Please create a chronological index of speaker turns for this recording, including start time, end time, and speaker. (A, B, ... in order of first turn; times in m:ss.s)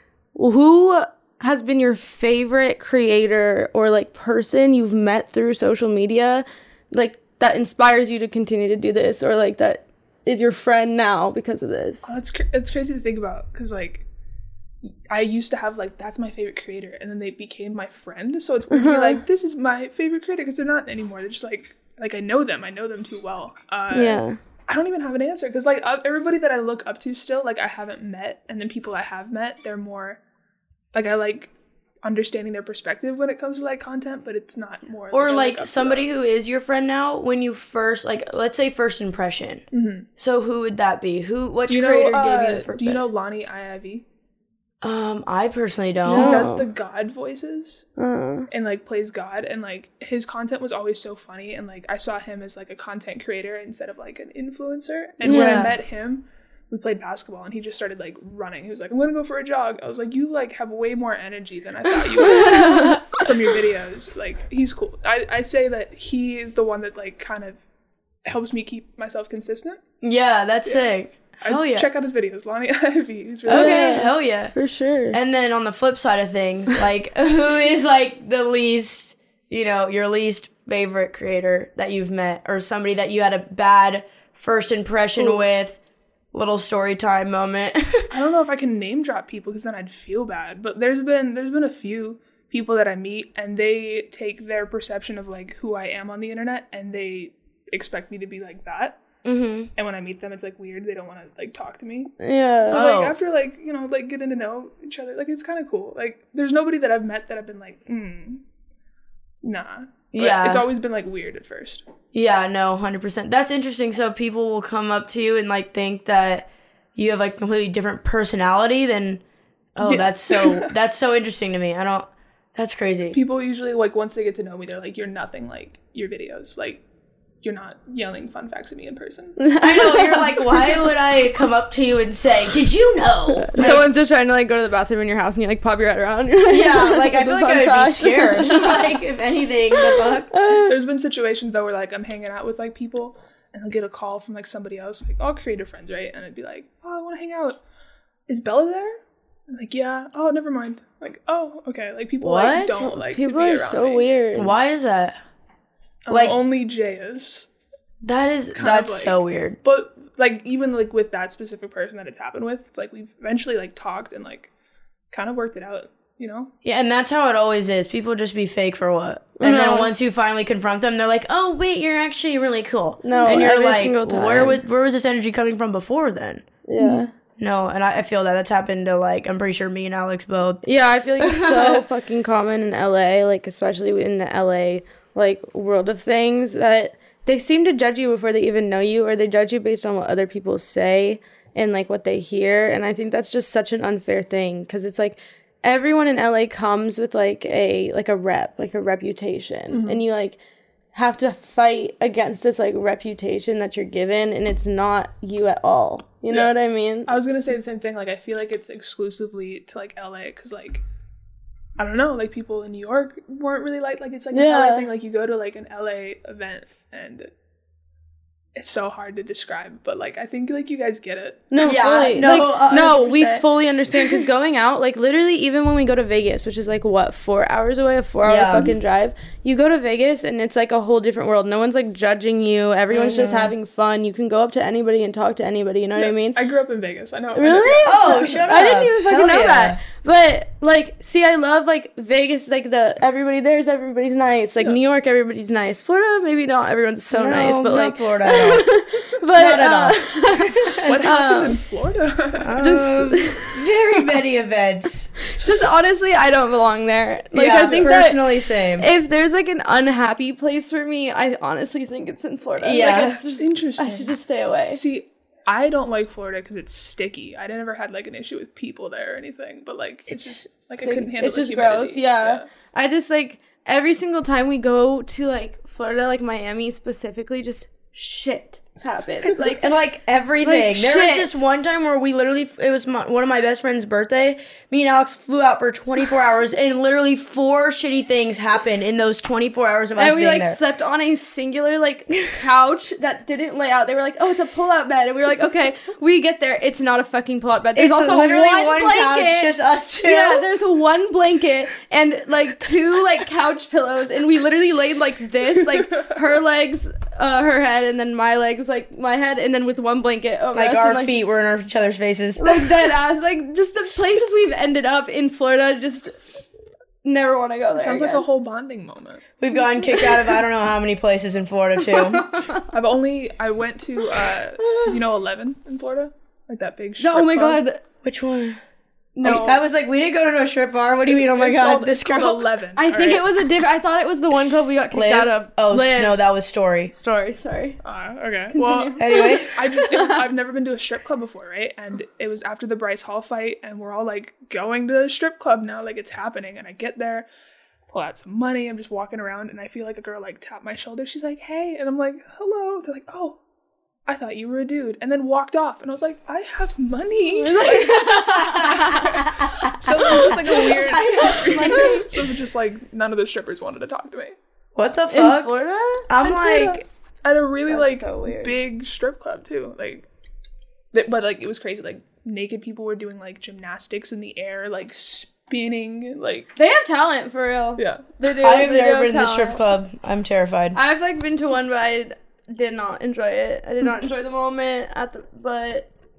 0:00.3-0:12.1 A
0:12.0-0:14.1 B
0:15.1-0:30.2 B
0:18.7-0:19.2 A
0:23.9-0:24.4 A
0:30.9-0:31.5 B
0:32.0-0:36.1 B
0:35.1-0:39.6 C
0:39.7-0:40.1 B
0:40.2-0:43.1 C
0:41.7-0:44.1 B
0:44.8-0:46.6 C
0:46.0-0:46.7 A
0:46.1-0:47.9 B
0:48.0-0:48.5 A
0:48.5-1:07.6 B
0:55.2-0:55.8 C
0:55.2-0:55.7 A
1:02.2-1:03.4 C
1:02.4-1:02.9 A
1:08.2-1:09.8 B
1:10.0-1:11.9 C
1:10.6-1:14.0 B
1:13.5-1:14.6 C
1:13.5-1:15.2 A
1:15.1-1:25.8 C
1:26.3-1:28.1 C
1:28.1-1:39.0 B
1:39.2-1:39.7 C
1:39.8-1:42.1 B
1:42.2-1:42.8 A
1:42.6-1:48.4 B
1:42.7-1:43.2 C
1:49.4-1:51.8 B
1:50.1-1:50.7 C
1:52.1-1:59.2 C
1:59.8-2:03.2 C
1:59.8-2:00.7 B
2:03.1-2:06.8 B
2:07.4-2:09.4 B
2:09.4-2:10.8 A
2:09.6-2:13.8 C
2:13.4-2:19.0 A
2:13.6-2:13.9 B
2:16.5-2:20.3 C
2:19.7-2:20.8 A
2:20.6-2:27.6 B
2:28.3-2:34.2 B
2:32.2-2:32.8 C
2:32.8-2:34.6 A
2:34.4-2:35.2 C
2:36.1-2:37.5 B
2:36.1-2:36.4 C
2:38.0-2:39.6 C
2:38.6-2:44.5 B
2:45.1-2:46.5 B
2:46.6-3:00.6 C
2:49.4-2:49.9 A
2:53.0-2:54.6 A
2:56.7-2:57.1 A
3:00.6-3:20.4 A
3:01.2-3:01.8 C
3:19.7-3:20.0 B
3:20.9-3:27.1 A
3:27.1-3:30.8 B
3:31.8-3:37.3 B
3:34.3-3:34.9 A
3:38.6-3:41.7 B
3:41.5-3:56.4 A
3:41.6-3:43.4 C
3:48.2-3:48.7 C
3:52.9-3:53.5 C
3:56.0-3:58.5 B
3:57.4-4:11.6 A
3:57.8-3:59.8 C
4:07.1-4:08.7 C
4:09.3-4:11.5 C
4:10.8-4:12.8 B
4:12.4-4:15.7 C
4:12.6-4:13.6 A
4:15.2-4:18.2 A
4:17.3-4:18.9 C
4:17.5-4:18.0 B
4:18.8-4:24.8 A
4:22.6-4:23.2 C
4:22.8-4:24.2 B
4:24.7-4:32.4 B
4:30.1-4:30.5 C
4:30.8-4:39.6 A
4:39.4-4:50.6 C
4:40.4-4:41.3 A
4:50.0-5:11.2 A
4:57.8-5:00.5 C
5:10.5-5:12.9 C
5:12.4-5:16.2 A
5:17.0-5:18.2 A
5:17.8-5:19.2 B
5:19.4-5:22.3 C
5:19.8-5:20.3 A
5:21.8-5:22.7 A
5:22.7-5:27.6 B
5:24.6-5:25.0 A
5:27.0-5:27.8 A
5:28.0-5:28.6 C
5:29.2-5:29.6 A
5:29.2-5:32.5 C
5:31.1-5:33.2 B
5:32.8-5:36.2 A
5:34.9-5:36.9 C
5:36.9-5:37.8 A
5:37.8-5:47.3 B
5:38.5-5:40.2 A
5:39.0-5:39.8 C
5:47.9-5:53.4 B
5:54.1-6:04.4 B
5:57.2-5:59.3 A
5:57.8-6:02.3 C
6:04.8-6:05.5 C
6:05.1-6:06.1 A
6:06.1-6:06.8 C
6:06.2-6:10.1 B
6:07.7-6:08.6 A
6:10.9-6:16.5 B
6:16.6-6:19.6 A
6:17.8-6:18.1 B
6:18.2-6:20.8 C
6:20.8-6:25.9 A